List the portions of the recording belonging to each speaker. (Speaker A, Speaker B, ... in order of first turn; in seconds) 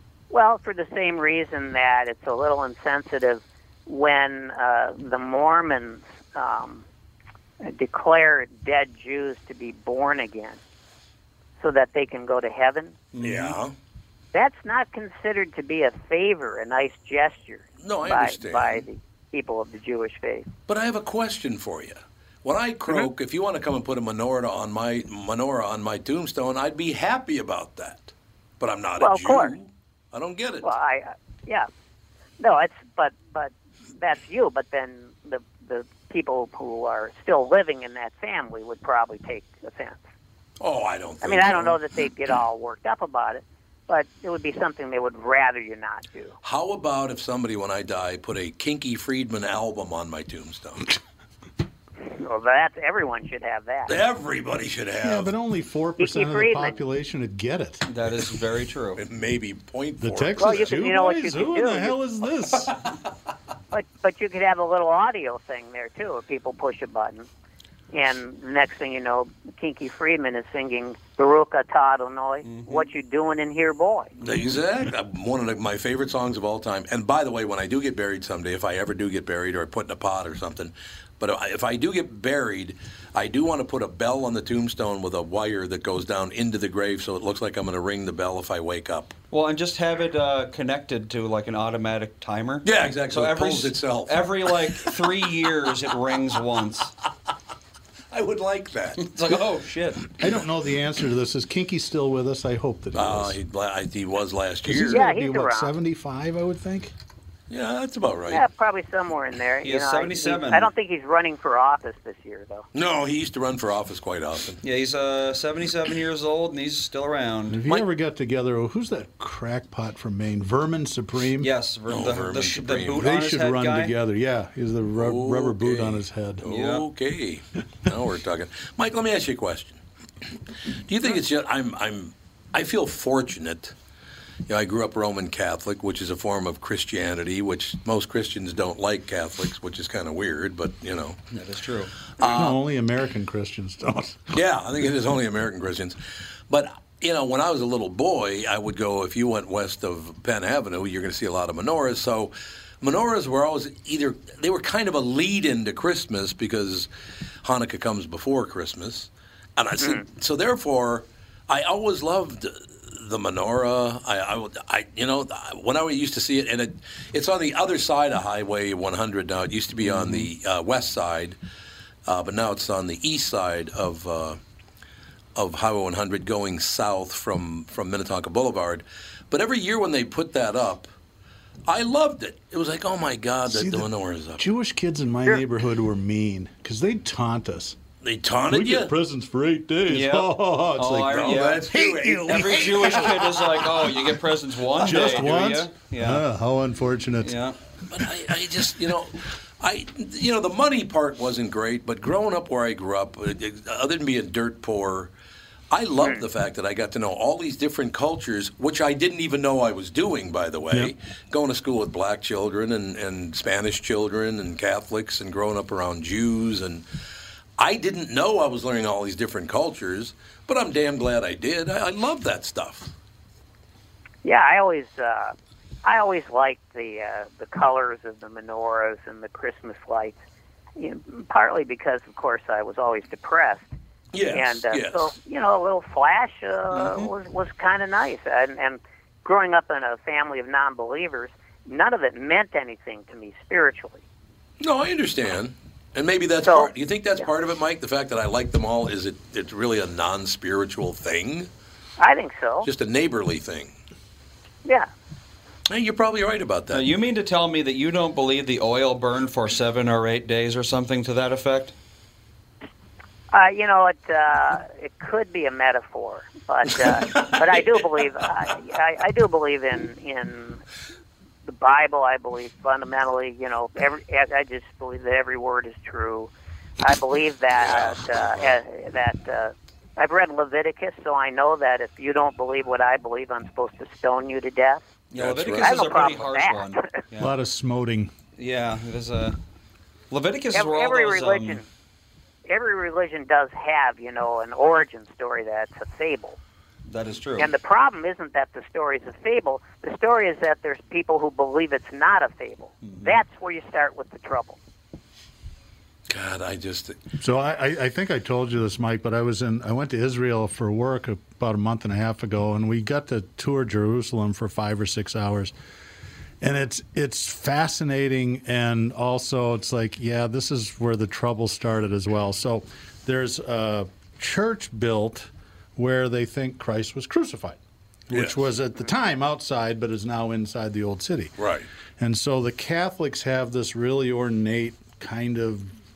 Speaker A: 0.3-6.8, 7.6-10.6, 11.6-13.0, 14.3-20.5, 29.0-29.5, 30.6-31.7, 32.4-40.0, 41.2-46.4, 52.1-54.0, 56.0-56.8, 60.4-62.0, 63.7-67.3, 67.9-74.1, 104.9-105.7, 108.3-112.7, 224.2-230.2, 230.8-233.7, 234.3-244.0, 246.4-247.3, 252.0-252.7, 263.3-270.6, 271.4-284.8, 285.6-287.0, 290.5-291.6, 292.5-296.4, 297.4-304.6
Speaker B: 13.1-13.6, 57.9-59.0, 72.5-72.9, 89.3-96.9, 99.0-100.0, 109.6-110.7, 114.6-117.6, 121.4-123.9, 126.5-126.9, 141.3-142.5, 169.8-170.3, 189.9-191.7, 192.3-196.2, 197.2-197.6, 256.7-261.7, 285.1-287.3, 288.4-289.4, 290.1-291.6, 296.9-297.5, 302.8-303.2
Speaker C: 13.2-13.7, 17.8-18.9, 20.7-30.7, 40.6-41.8, 46.4-50.9, 53.9-55.3, 59.0-60.8, 74.2-89.2, 92.6-95.0, 98.1-99.2, 102.9-105.0, 107.5-108.5, 112.7-114.6, 121.9-123.1, 125.0-129.8, 130.9-133.8, 134.5-141.2, 142.2-142.4, 144.3-146.0, 146.5-156.9, 157.4-171.4, 172.1-174.4, 175.4-180.9, 181.7-184.5, 188.0-188.9, 191.1-193.7, 197.9-205.1, 205.7-216.8, 217.6-222.9, 234.1-235.1, 236.8-237.1, 244.6-251.5, 252.6-253.7, 255.7-256.9, 277.5-278.5, 285.1-286.1, 306.1-307.0, 328.1-328.5, 331.4-331.7
Speaker D: 55.0-57.8, 60.0-62.8, 100.2-103.4, 104.7-106.9, 117.5-121.5, 123.0-126.5, 142.2-144.4, 183.5-187.8, 188.5-193.9, 194.7-197.4, 287.2-288.1, 307.2-315.5, 316.4-327.6, 328.1-331.4, 332.0-335.7